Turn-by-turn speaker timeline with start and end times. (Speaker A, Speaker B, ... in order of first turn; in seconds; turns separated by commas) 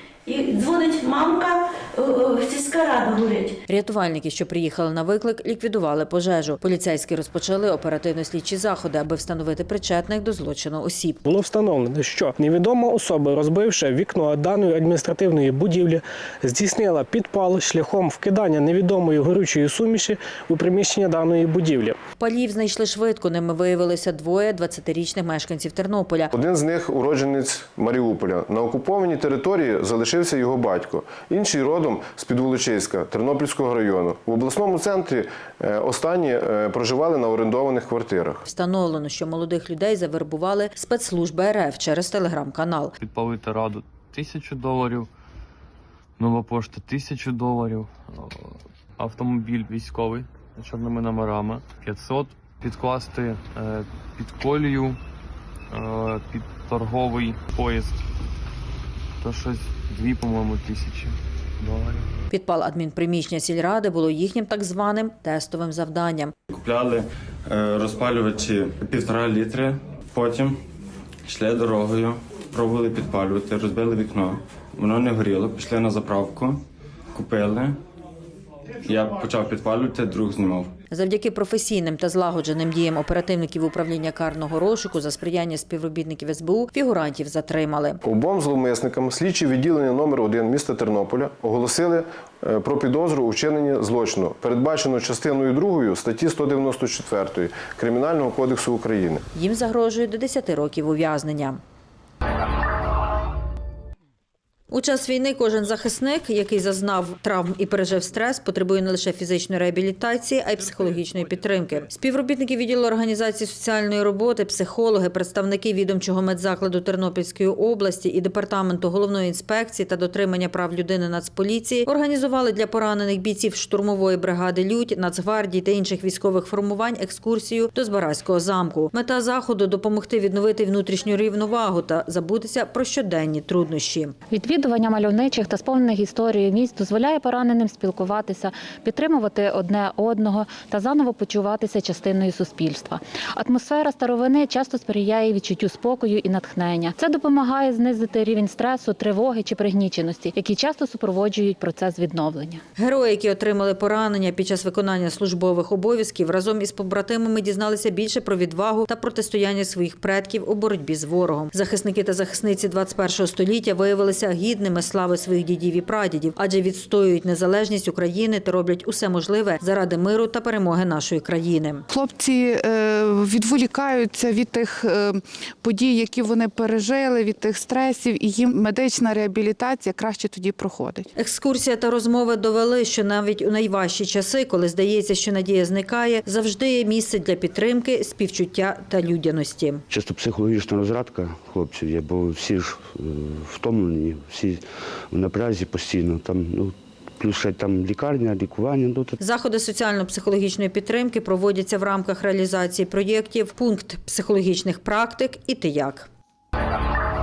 Speaker A: 0.3-3.5, Speaker B: 3.7-11.2, Speaker C: 11.2-21.9, Speaker B: 22.2-26.3, Speaker D: 26.3-38.4, Speaker B: 38.5-42.9, Speaker E: 43.0-45.1, Speaker E: 46.2-55.0, Speaker E: 55.7-57.9, Speaker E: 59.2-62.1, Speaker B: 62.3-66.3, Speaker F: 66.5-70.6, Speaker F: 71.2-76.6, Speaker F: 77.1-77.8, Speaker F: 78.8-80.7, Speaker B: 80.9-88.0, Speaker D: 88.0-99.2, Speaker B: 99.3-101.6, Speaker B: 104.7-134.1, Speaker G: 134.3-152.6, Speaker B: 152.8-171.8, Speaker H: 171.9-181.1, Speaker B: 181.2-189.8, Speaker I: 189.9-199.2, Speaker B: 199.2-206.1